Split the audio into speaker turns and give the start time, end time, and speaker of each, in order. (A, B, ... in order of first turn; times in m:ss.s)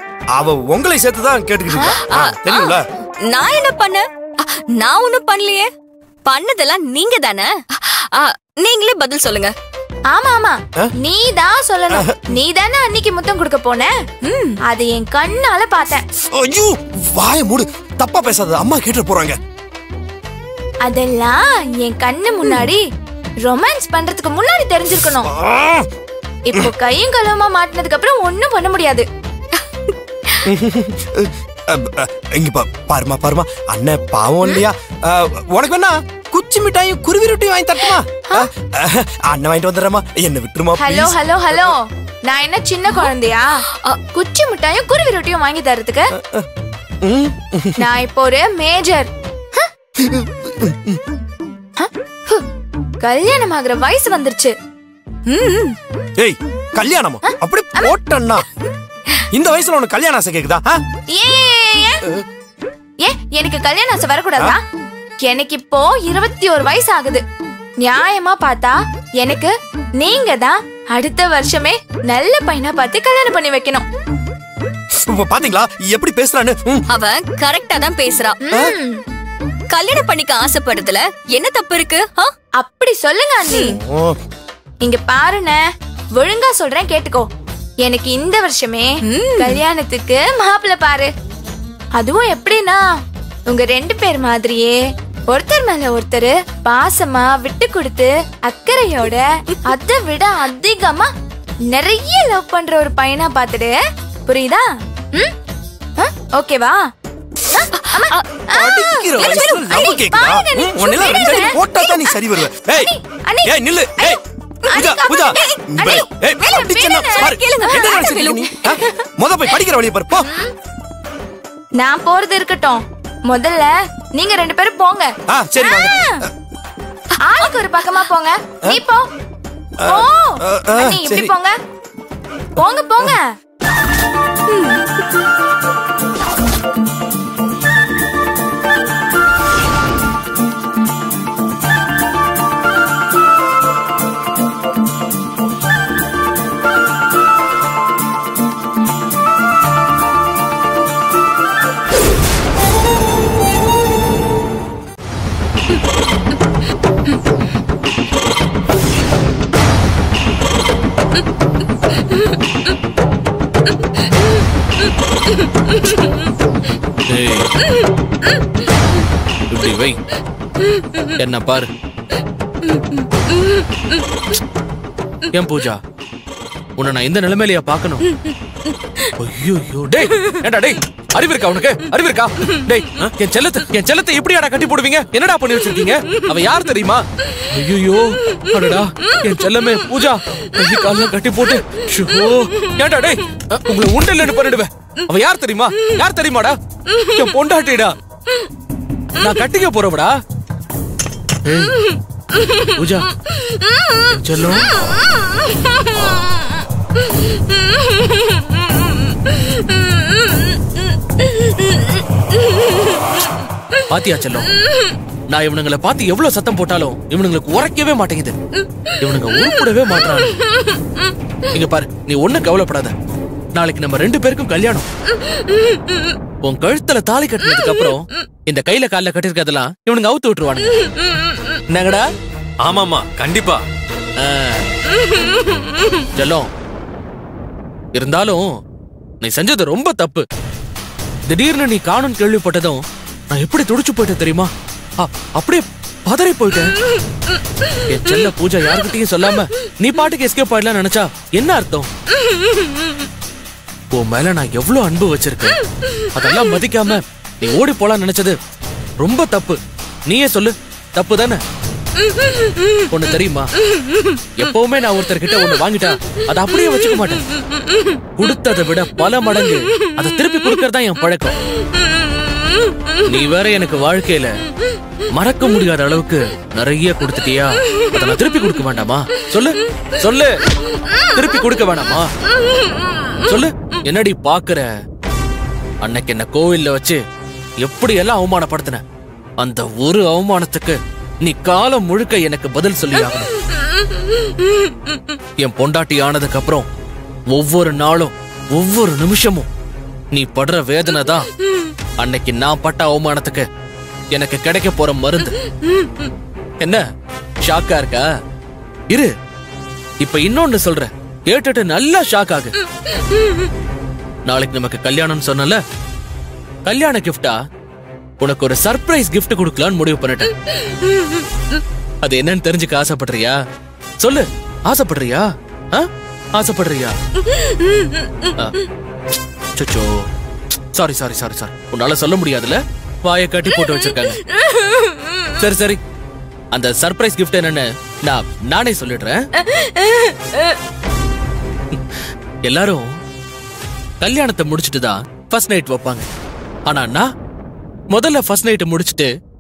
0:00.3-0:02.9 A
0:01.8-0:05.7 B
0:06.2-0:09.5 B
0:10.1-0:13.9 C
0:11.9-0:12.3 A
0:14.2-0:14.6 B
0:14.7-0:16.0 C
0:16.3-0:19.4 A
0:20.8-0:22.8 C
0:23.4-0:25.3 C
0:25.2-0:25.9 A
0:26.5-0:29.0 C
0:30.5-0:41.7 A
0:40.8-0:46.1 C
0:43.7-0:44.0 B
0:46.2-0:46.4 A
0:47.0-0:47.8 A
0:47.8-0:49.7 C
0:50.0-0:51.0 A
0:51.8-0:52.4 C
0:53.0-0:54.6 C
0:55.3-0:55.8 C
0:56.2-0:58.5 A
0:57.3-0:57.9 C
0:59.3-1:00.8 A
1:01.1-1:02.1 C
1:03.0-1:04.6 C
1:05.3-1:07.2 C
1:07.8-1:13.9 C
1:15.1-1:16.9 A
1:16.9-1:18.4 B
1:18.4-1:19.0 C
1:19.7-1:22.3 B
1:22.6-1:23.8 C
1:23.7-1:24.2 A
1:24.8-1:25.6 C
1:26.2-1:27.3 C
1:27.8-1:31.1 C
1:29.0-1:29.6 B
1:32.0-1:32.8 C
1:33.5-1:34.8 C
1:35.3-1:41.1 C
1:41.7-1:43.8 C
1:44.3-1:45.3 C
1:46.0-1:46.8 C
1:47.5-1:52.2 C
1:47.7-1:48.3 B
1:48.5-1:52.9 A
1:49.1-1:49.7 B
1:52.8-1:54.2 C
1:53.4-2:00.3 A
1:54.7-1:58.1 C
1:55.4-1:55.6 B
1:56.4-1:58.8 B
2:00.2-2:00.5 C
2:01.8-2:06.2 C
2:05.3-2:06.3 A
2:07.2-2:09.1 C
2:09.8-2:11.3 A
2:09.9-2:11.5 C
2:12.6-2:13.3 C
2:14.5-2:14.8 C
2:47.1-2:47.5 D
2:49.5-2:50.0 D
2:51.1-2:51.7 D
2:55.3-2:55.8 D
2:56.8-2:58.1 D
2:59.2-3:18.0 D
3:19.2-3:20.2 D
3:21.4-3:22.0 D
3:22.6-3:23.1 D
3:24.0-3:24.7 D
3:33.9-3:34.5 D
3:35.3-3:38.4 D
3:39.0-3:40.4 D
3:41.5-3:42.9 D
3:43.5-3:44.9 D
3:46.4-3:50.9 D
3:51.7-3:52.0 D
3:52.6-3:53.6 D
3:54.2-3:54.6 D
3:56.1-3:56.5 D
3:57.9-3:58.5 D
3:59.2-4:00.3 D
4:01.3-4:06.7 D
4:07.9-4:11.9 D
4:13.9-4:15.6 D
4:16.1-4:18.4 D
4:19.0-4:21.4 D
4:22.9-4:23.5 D
4:24.4-4:27.2 D
4:28.2-4:31.4 D
4:33.0-4:34.4 D
4:35.1-4:40.4 D
4:41.1-4:42.1 D
4:43.2-4:44.7 D
4:45.8-4:47.0 D
4:47.6-4:48.8 D
4:49.4-4:53.3 D
4:55.4-4:56.7 D
4:57.3-4:59.5 D
5:00.1-5:01.3 D
5:02.0-5:03.5 D
5:04.1-5:05.4 D
5:06.6-5:06.8 D
5:07.4-5:08.1 D
5:10.0-5:12.6 D
5:14.3-5:15.6 D
5:16.7-5:17.4 D
5:18.2-5:20.3 D
5:22.0-5:23.4 D
5:24.0-5:27.0 D
5:29.6-5:30.1 D
5:30.7-5:34.3 D
5:35.4-5:35.8 D
5:36.5-5:39.3 D
5:42.5-5:42.9 D
5:44.0-5:46.1 D
5:46.7-5:47.1 D
5:47.9-5:49.1 D